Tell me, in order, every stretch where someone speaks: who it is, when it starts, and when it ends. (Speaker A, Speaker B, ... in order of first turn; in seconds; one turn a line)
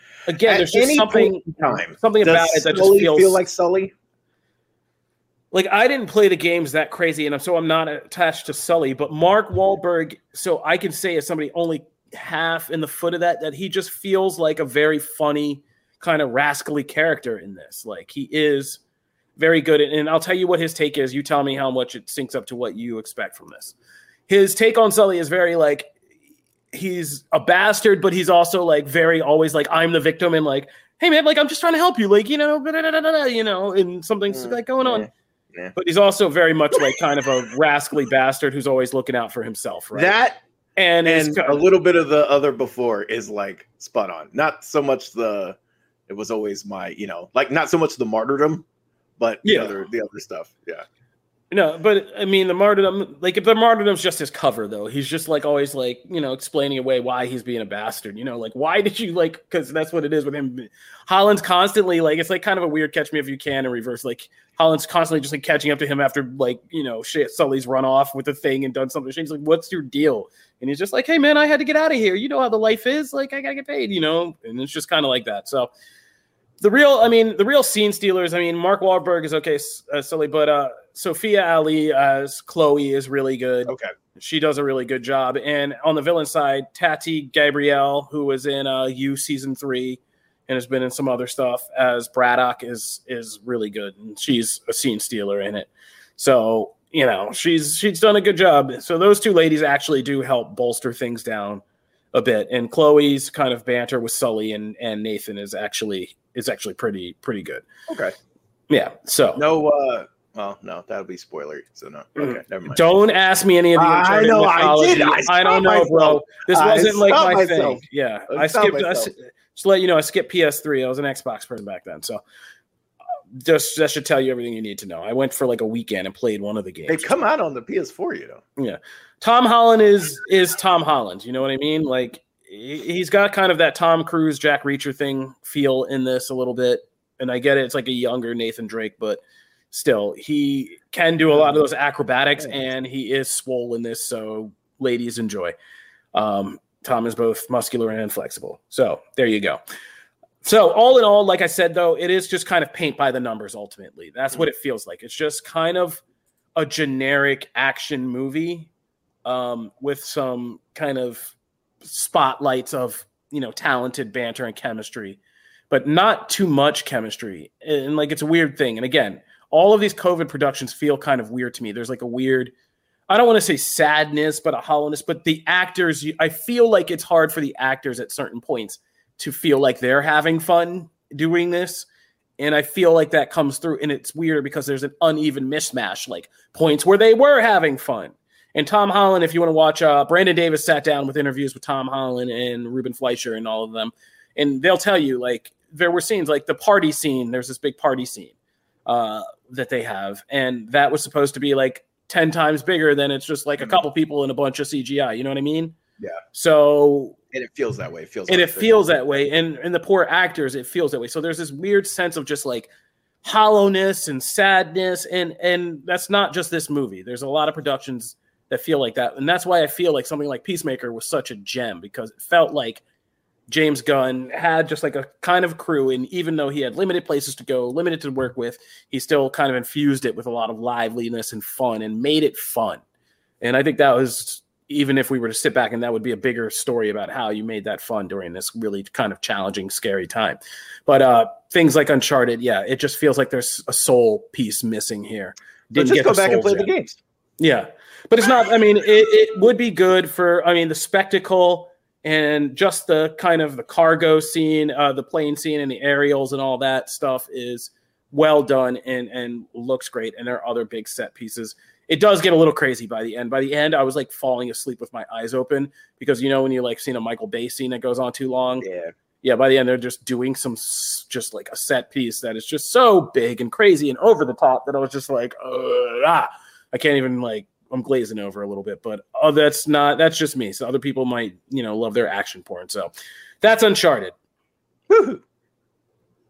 Speaker A: 0.3-3.4
Speaker B: 0.4-3.9
Speaker A: 5.5-18.8
Speaker A: 19.4-23.7
Speaker A: 24.3-25.9
Speaker A: 26.7-35.1
Speaker B: 34.3-35.8
Speaker A: 35.8-40.2
Speaker B: 39.9-40.4
Speaker A: 40.8-41.7
Speaker B: 41.0-45.6
Speaker B: 46.1-48.6
Speaker B: 49.2-50.8
Speaker A: 49.4-49.8
Speaker A: 51.5-75.7
Speaker A: 76.6-101.6
Speaker A: 102.1-107.6
Speaker B: 107.9-108.2
Speaker A: 108.7-109.4
Speaker B: 109.4-112.8
Speaker A: 112.2-122.2
Speaker B: 113.8-119.1
Speaker A: 123.3-127.2
Speaker B: 126.9-128.4
Speaker A: 128.6-139.2
Speaker A: 139.7-145.5
Speaker B: 141.3-141.7
Speaker A: 146.1-149.6
Speaker A: 150.4-156.0
Speaker A: 156.6-158.7
Speaker A: 159.2-165.2
Speaker A: 165.7-172.5
Speaker A: 173.1-181.9
Speaker A: 182.4-198.3
Speaker A: 198.9-205.8
Speaker A: 206.3-207.2
Speaker B: 207.3-209.2
Speaker A: 208.3-212.7
Speaker A: 213.2-222.8
Speaker A: 223.5-232.8
Speaker A: 233.4-246.7
Speaker B: 245.7-247.0
Speaker A: 247.4-268.7
Speaker B: 268.6-268.9
Speaker A: 269.2-284.1
Speaker B: 284.9-285.2